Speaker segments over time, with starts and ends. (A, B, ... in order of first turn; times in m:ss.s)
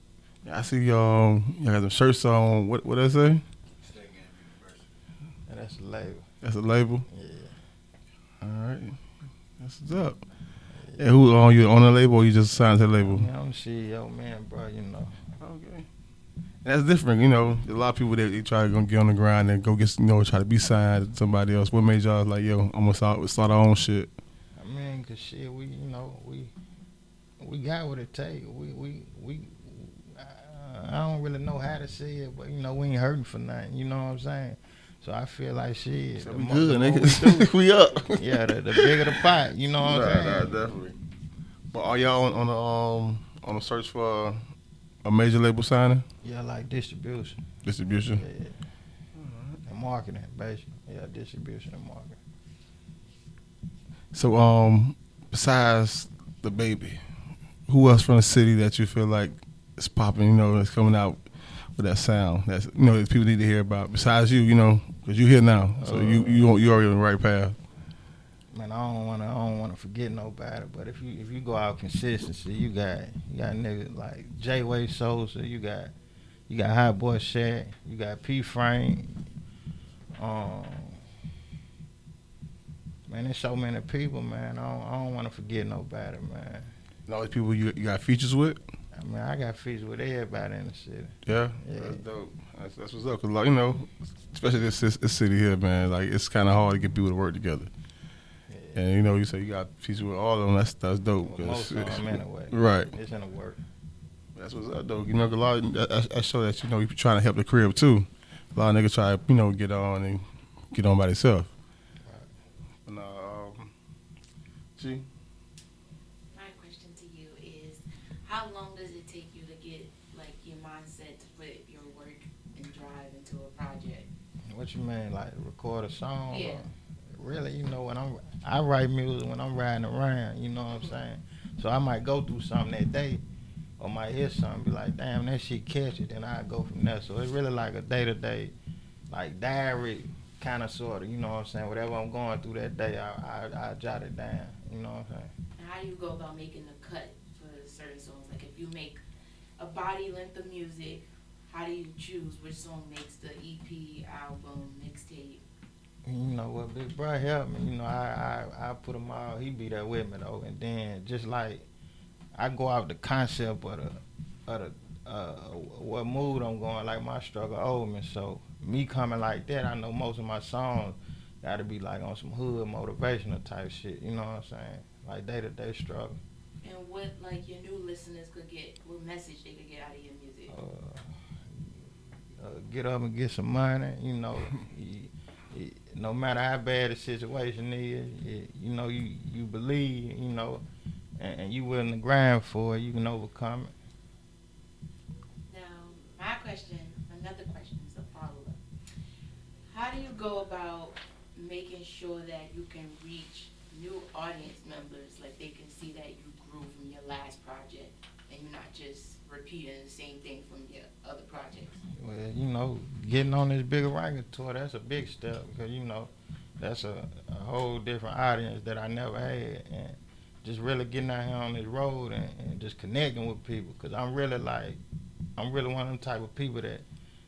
0:00.4-0:03.4 A
0:05.5-0:06.2 B
0:06.4-0:07.1 A
0:07.1-0:07.6 B
0:08.4-0:09.0 A
0:09.6-0:10.2 A
0:10.8-0:11.1 B
0:11.0-0:13.3 A
0:12.9-0:15.2 B
0:15.4-0:15.9 A
0:16.6-0:24.1 A
0:24.6-0:26.5 B
0:27.4-0:37.5 B
0:36.2-0:41.0 A
0:38.1-0:40.6 B
0:41.7-0:44.4 A
0:45.0-0:46.0 A
0:46.2-0:47.4 B
0:47.6-0:48.2 A
0:48.1-0:48.6 B
0:49.2-0:49.6 A
0:49.6-0:52.2 B
0:54.1-0:57.0 A
0:57.7-1:01.2 A
1:01.8-1:07.6 A
1:05.8-1:06.5 B
1:08.5-1:15.9 B
1:16.5-1:19.2 B
1:20.2-1:21.0 B
1:23.1-1:26.7 B
1:27.1-1:28.6 A
1:28.9-1:32.0 B
1:31.2-1:37.7 A
1:38.5-1:38.8 B
1:38.8-1:42.9 A
1:41.2-1:43.6 B
1:44.4-1:51.5 A
1:52.9-1:53.7 A
1:54.8-1:55.1 A
1:56.4-2:04.1 C
2:04.5-2:13.2 B
2:06.3-2:06.6 C
2:13.8-2:18.5 B
2:19.1-2:25.3 B
2:25.6-2:29.0 C
2:29.6-2:35.4 C
2:36.0-2:41.7 B
2:42.4-2:56.2 B
2:56.6-3:00.5 C
3:00.5-3:01.8 B
3:02.4-3:10.6 B
3:11.2-3:13.7 B
3:15.5-3:18.6 C
3:19.7-3:31.8 C
3:32.0-3:44.8 B
3:45.4-3:46.9 B